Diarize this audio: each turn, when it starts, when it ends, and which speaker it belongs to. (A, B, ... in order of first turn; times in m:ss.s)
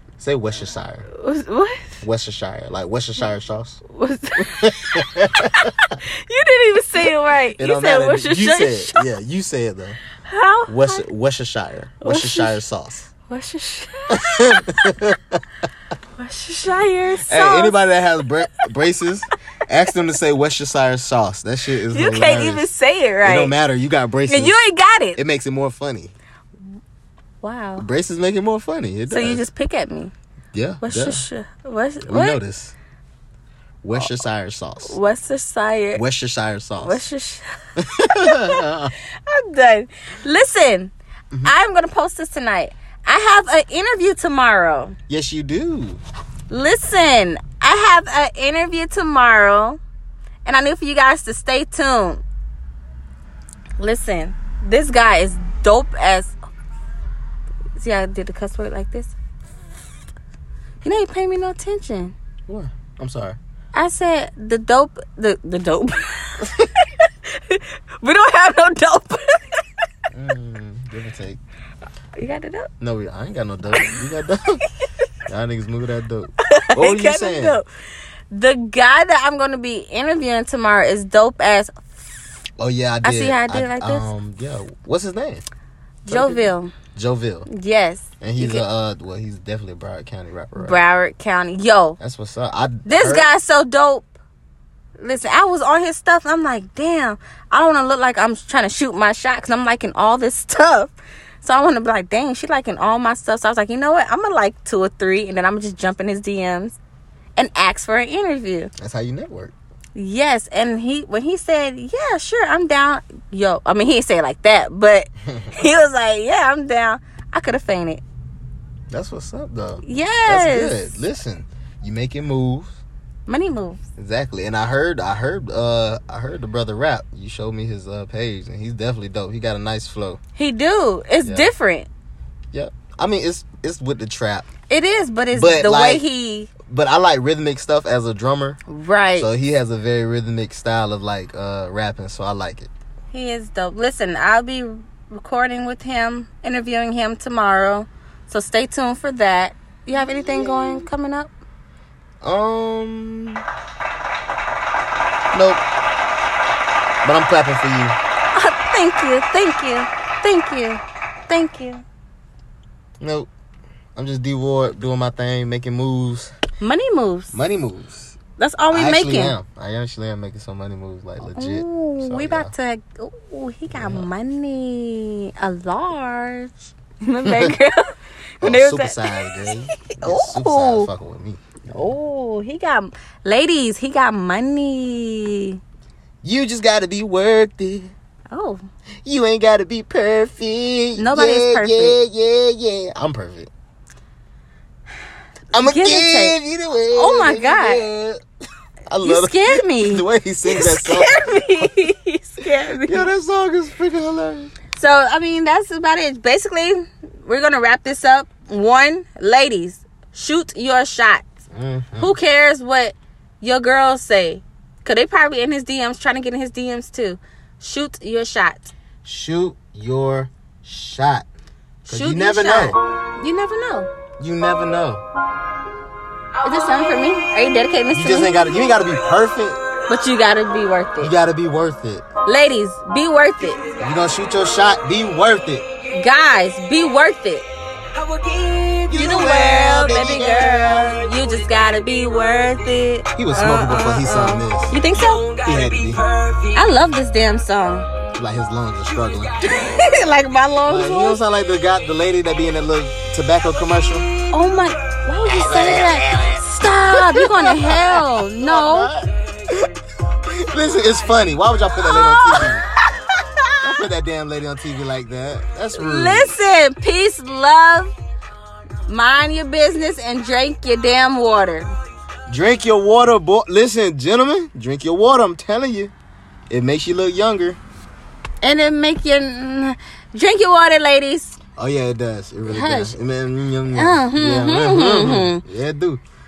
0:00.2-0:01.0 A
0:01.1-0:02.0 B
0:02.0-0:03.8 A
0:03.9-0:09.1 B
0:04.4-0:05.7 A
0:07.6-0:10.0 A
0:10.2-0:11.0 B
0:10.7-0:13.1 A
0:12.0-0:12.6 B
0:13.3-0:15.0 B
0:14.1-0:15.4 A
0:16.2-0:17.8 B
0:17.2-0:22.7 A
0:21.9-0:23.5 B
0:23.2-0:24.6 A
0:24.3-0:25.2 B
0:25.2-0:26.1 A
0:27.4-0:27.9 B
0:27.8-0:29.4 A
0:29.1-0:30.1 B
0:30.5-0:31.2 A
0:30.8-0:32.4 B
0:32.0-0:32.7 A
0:33.8-0:35.0 A
0:34.8-0:36.0 B
0:35.9-0:37.0 A
0:36.8-0:37.5 B
0:37.8-0:38.9 A
0:38.1-0:38.6 B
0:39.2-0:40.9 B
0:41.4-0:44.9 B
0:45.1-0:46.0 A
0:46.5-0:49.8 B
0:50.4-0:52.2 B
0:53.8-0:56.3 B
0:57.8-0:59.1 B
1:00.8-1:02.1 B
1:02.5-1:03.4 A
1:03.7-1:09.6 B
1:10.1-1:11.4 A
1:12.2-1:12.7 B
1:12.8-1:14.6 A
1:15.3-1:17.6 A
1:16.4-1:17.6 B
1:18.3-1:21.9 B
1:22.6-1:25.4 A
1:23.0-1:24.1 B
1:26.0-1:26.7 B
1:26.1-1:27.5 A
1:27.5-1:28.6 B
1:28.2-1:30.8 A
1:30.6-1:32.0 B
1:32.0-1:33.3 A
1:32.8-1:34.1 B
1:35.0-1:46.8 B
1:47.4-1:48.7 B
1:48.8-1:49.5 A
1:49.9-1:58.0 B
1:55.2-1:55.5 A
1:58.9-2:02.8 A
1:59.8-2:01.0 B
2:03.3-2:03.8 B
2:04.0-2:10.2 A
2:10.4-2:11.9 B
2:11.2-2:11.5 A
2:12.5-2:14.5 A
2:14.7-2:16.5 B
2:15.3-2:16.0 A
2:16.6-2:18.6 A
2:18.7-2:19.3 B
2:19.2-2:22.7 A
2:23.1-2:31.3 B
2:30.0-2:30.6 A
2:32.2-2:33.4 A
2:35.3-2:35.6 A
2:37.0-2:38.0 A
2:38.3-2:41.8 B
2:43.0-2:43.3 A
2:44.0-2:46.3 A
2:46.6-2:47.4 B
2:47.3-2:48.2 A
2:48.4-2:49.4 B
2:48.7-2:52.5 A
2:51.4-3:00.9 B
2:53.7-2:54.1 A
2:57.2-2:57.6 A
2:58.4-3:01.8 A
3:01.7-3:05.6 B
3:06.2-3:07.9 A
3:08.3-3:08.6 B
3:09.0-3:13.5 A
3:11.0-3:12.0 B
3:15.5-3:18.2 A
3:15.5-3:16.4 B
3:16.9-3:17.8 B
3:18.9-3:21.6 A
3:19.0-3:23.1 B
3:22.7-3:24.5 A
3:24.7-3:31.2 B
3:31.5-3:32.1 A
3:32.0-3:38.7 B
3:39.0-3:41.2 A
3:41.8-3:42.8 A
3:41.8-3:43.9 B
3:44.2-3:45.0 A
3:46.4-3:48.6 B
3:46.6-3:47.1 C
3:47.9-3:49.6 A
3:49.9-3:51.1 B
3:51.0-3:52.0 A
3:52.2-3:53.6 B
3:53.8-3:55.6 A
3:55.9-3:57.4 B
3:57.9-4:02.5 C
3:58.9-4:01.0 A
3:58.9-4:05.2 B
4:03.1-4:04.8 A
4:04.8-4:06.7 C
4:05.4-4:06.0 A
4:06.5-4:07.9 B
4:08.2-4:09.4 A
4:08.9-4:09.9 C
4:09.4-4:11.2 B
4:10.7-4:14.1 A
4:14.1-4:14.7 C
4:14.3-4:18.9 B
4:15.4-4:22.6 A
4:15.8-4:16.0 C
4:21.7-4:22.6 B
4:23.6-4:26.4 A
4:25.7-4:27.9 B
4:28.8-4:31.7 B
4:32.3-4:35.9 A
4:36.5-4:37.6 A
4:38.4-4:41.4 B
4:41.6-4:46.0 A
4:42.5-4:43.0 B
4:43.7-4:45.4 B